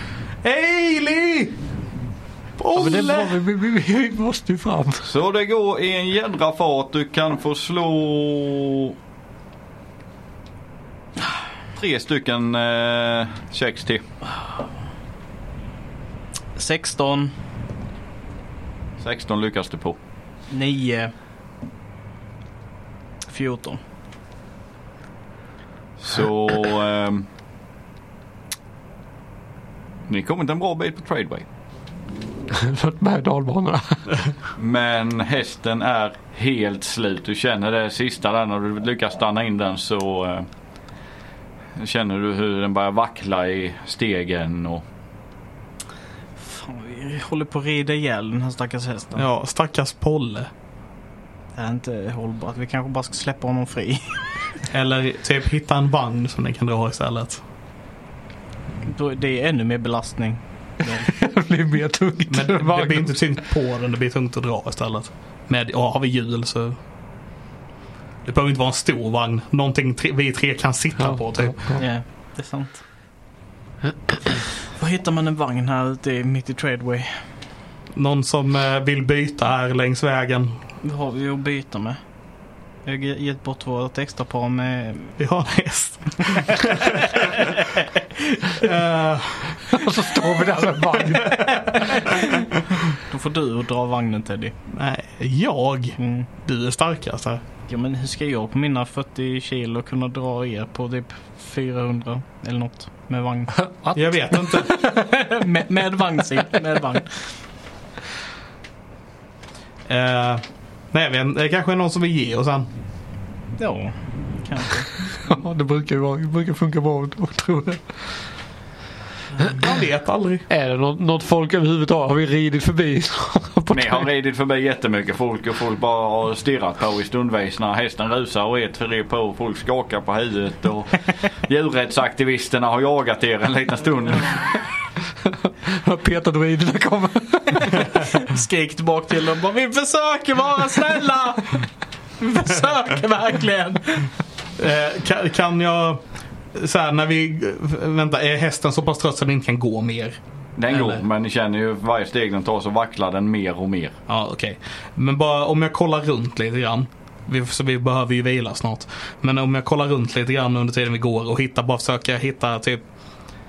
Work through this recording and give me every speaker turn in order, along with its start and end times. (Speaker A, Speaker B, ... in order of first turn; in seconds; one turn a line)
Speaker A: 0.4-1.6
Speaker A: 2.6-3.4
Speaker B: 2.7-5.1
Speaker C: 5.1-8.9
Speaker C: 11.7-14.0
Speaker D: 16.6-17.4
Speaker C: 19.0-20.0
Speaker D: 20.5-21.1
Speaker D: 23.3-23.8
Speaker C: 26.0-27.3
Speaker C: 30.1-31.4
Speaker B: 32.5-34.3
Speaker C: 34.6-40.5
Speaker C: 41.8-44.8
Speaker D: 46.4-49.2
Speaker A: 49.2-50.5
Speaker D: 51.5-54.4
Speaker A: 54.7-57.4
Speaker D: 58.9-61.1
Speaker B: 61.0-63.2
Speaker A: 62.3-66.8
Speaker A: 68.2-71.6
Speaker B: 71.0-71.8
Speaker D: 71.8-72.8
Speaker D: 74.7-77.2
Speaker A: 78.0-80.6
Speaker D: 80.8-85.2
Speaker A: 85.2-87.6
Speaker D: 87.0-87.4
Speaker A: 88.5-89.6
Speaker B: 89.7-92.1
Speaker A: 91.4-91.7
Speaker D: 91.9-94.6
Speaker A: 94.7-97.4
Speaker D: 96.0-96.3
Speaker D: 97.7-103.6
Speaker B: 103.7-104.0
Speaker A: 104.0-104.8
Speaker D: 104.8-107.3
Speaker A: 109.9-112.7
Speaker D: 113.6-114.9
Speaker B: 115.2-117.9
Speaker A: 119.5-120.5
Speaker B: 120.5-124.1
Speaker C: 123.7-134.5
Speaker B: 135.6-138.0
Speaker D: 138.0-144.1
Speaker A: 144.6-150.2
Speaker C: 150.6-153.9
Speaker A: 150.7-151.0
Speaker A: 154.1-162.8